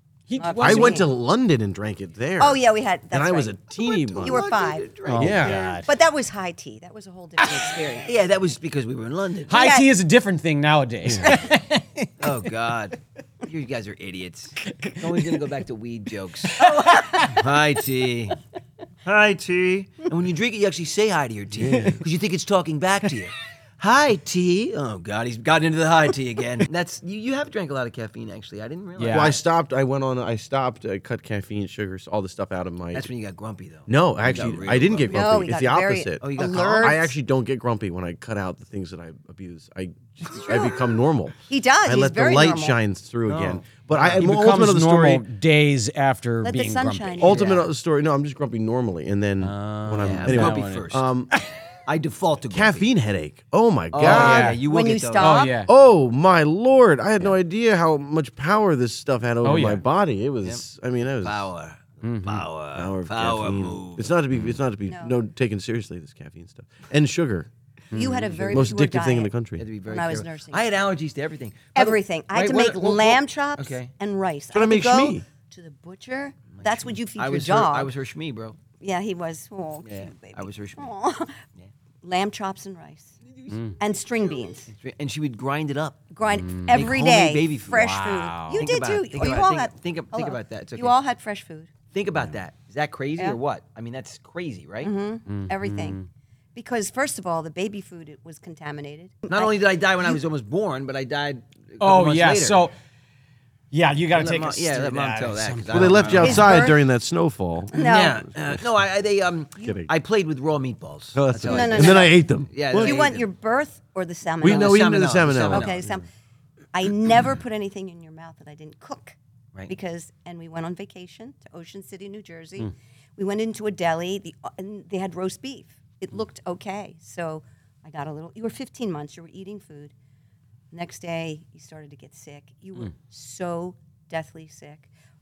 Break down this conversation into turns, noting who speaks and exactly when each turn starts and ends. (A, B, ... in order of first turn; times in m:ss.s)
0:00.3-0:01.1 A
0:00.4-0:01.1 B
0:00.6-0:04.4 C
0:02.4-0:04.9 B
0:04.1-0:05.8 D
0:05.1-0:05.9 A
0:05.2-0:05.6 C
0:05.8-0:08.2 B
0:08.0-0:09.6 D
0:09.5-0:09.9 B
0:09.5-0:12.2 A
0:11.0-0:11.4 C
0:12.2-0:18.4 D
0:14.7-0:15.4 A
0:16.5-0:17.4 A
0:19.0-0:29.4 D
0:21.6-0:22.0 C
0:21.7-0:22.0 A
0:29.0-0:29.4 A
0:29.0-0:33.1 C
0:32.9-0:35.3 D
0:33.9-0:45.2 C
0:35.1-0:37.1 B
0:36.2-0:37.1 D
0:40.3-0:40.8 D
0:41.5-0:42.8 B
0:43.3-0:44.2 D
0:44.0-0:47.4 A
0:46.4-0:47.6 B
0:47.2-0:51.3 C
0:47.3-0:47.6 D
0:49.4-0:51.5 A
0:50.0-0:51.0 D
0:51.9-0:52.9 D
0:52.5-0:54.6 C
0:53.9-0:55.5 D
0:54.0-0:54.6 A
0:54.3-0:55.6 B
0:55.2-0:55.7 A
0:55.7-1:01.5 C
0:59.4-0:59.8 A
1:01.2-1:04.1 D
1:02.0-1:02.4 A
1:02.8-1:07.5 C
1:04.9-1:05.2 B
1:07.9-1:08.3 A
1:07.9-1:09.3 B
1:08.0-1:08.7 D
1:08.5-1:09.7 C
1:09.6-1:13.9 D
1:09.9-1:10.7 B
1:11.8-1:17.9 B
1:14.5-1:15.2 C
1:16.5-1:18.6 D
1:18.8-1:21.4 B
1:19.8-1:20.9 D
1:22.0-1:23.2 B
1:23.5-1:23.8 A
1:23.8-1:24.7 B
1:24.7-1:31.0 D
1:26.1-1:31.7 B
1:26.3-1:26.8 A
1:27.7-1:28.7 A
1:31.9-1:34.9 D
1:34.8-1:36.0 B
1:35.3-1:36.1 A
1:36.6-1:39.6 B
1:39.3-1:42.7 D
1:41.8-1:42.7 A
1:43.7-1:46.4 A
1:44.1-1:46.7 D
1:45.7-1:47.8 C
1:46.2-1:46.8 B
1:47.7-1:48.2 B
1:47.7-1:53.3 D
1:48.4-1:48.6 C
1:49.6-1:49.9 C
1:51.2-1:53.1 C
1:51.5-1:52.2 B
1:52.7-1:54.9 B
1:54.4-1:56.0 C
1:54.4-1:55.7 D
1:55.5-1:56.1 B
1:56.7-1:59.2 B
1:59.7-2:09.9 B
2:10.7-2:14.9 B